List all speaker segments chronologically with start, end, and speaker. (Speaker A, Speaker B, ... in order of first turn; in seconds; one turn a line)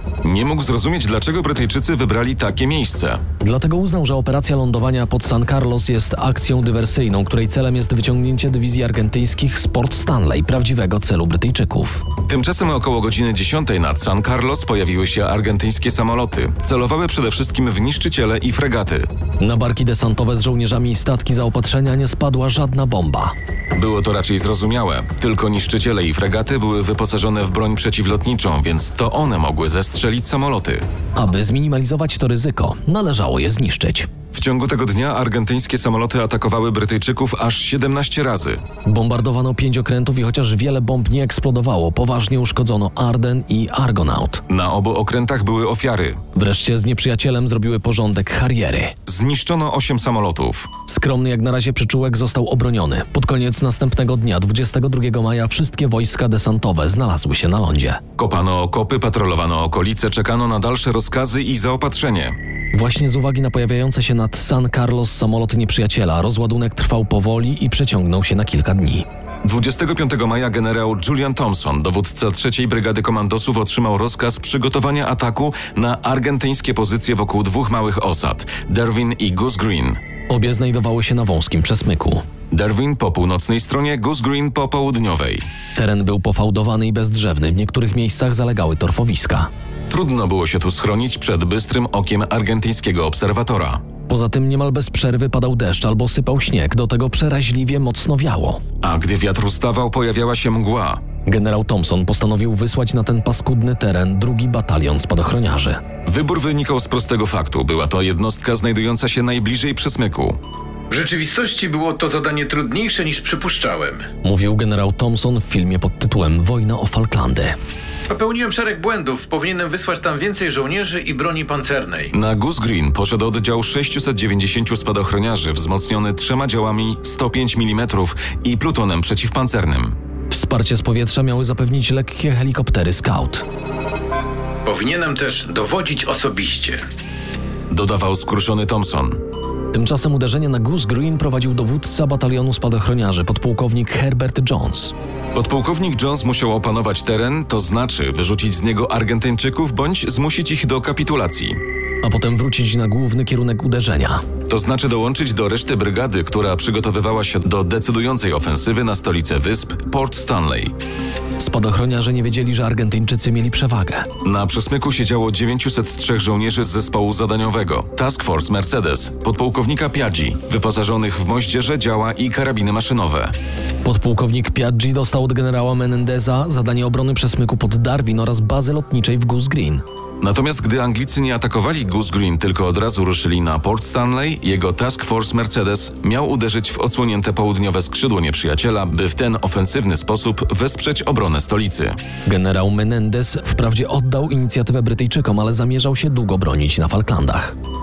Speaker A: 0.2-3.2
Speaker B: 3.4-12.0
Speaker A: 12.3-19.1
Speaker B: 19.4-23.3
Speaker A: 23.7-30.8
Speaker B: 31.1-34.1
Speaker A: 34.3-38.6
Speaker B: 38.9-44.4
Speaker A: 44.5-46.2
Speaker B: 46.3-48.9
Speaker A: 49.1-50.7
Speaker B: 50.9-58.0
Speaker A: 58.2-62.4
Speaker B: 62.7-69.0
Speaker A: 69.4-80.0
Speaker B: 80.3-82.2
Speaker A: 82.5-85.5
Speaker B: 85.7-89.5
Speaker A: 89.9-93.8
Speaker B: 94.1-98.6
Speaker A: 98.8-101.0
Speaker B: 101.2-105.8
Speaker A: 106.0-110.4
Speaker C: 110.9-114.0
Speaker B: 114.2-117.5
Speaker C: 118.1-122.1
Speaker A: 122.1-129.9
Speaker B: 130.3-133.4
Speaker C: 134.7-136.8
Speaker A: 137.7-139.2
Speaker B: 139.7-144.9
Speaker A: 145.3-151.6
Speaker B: 152.0-154.2
Speaker A: 154.5-160.7
Speaker B: 161.4-164.1
Speaker A: 164.2-173.3
Speaker B: 173.8-179.8
Speaker A: 180.2-191.9
Speaker B: 192.2-197.5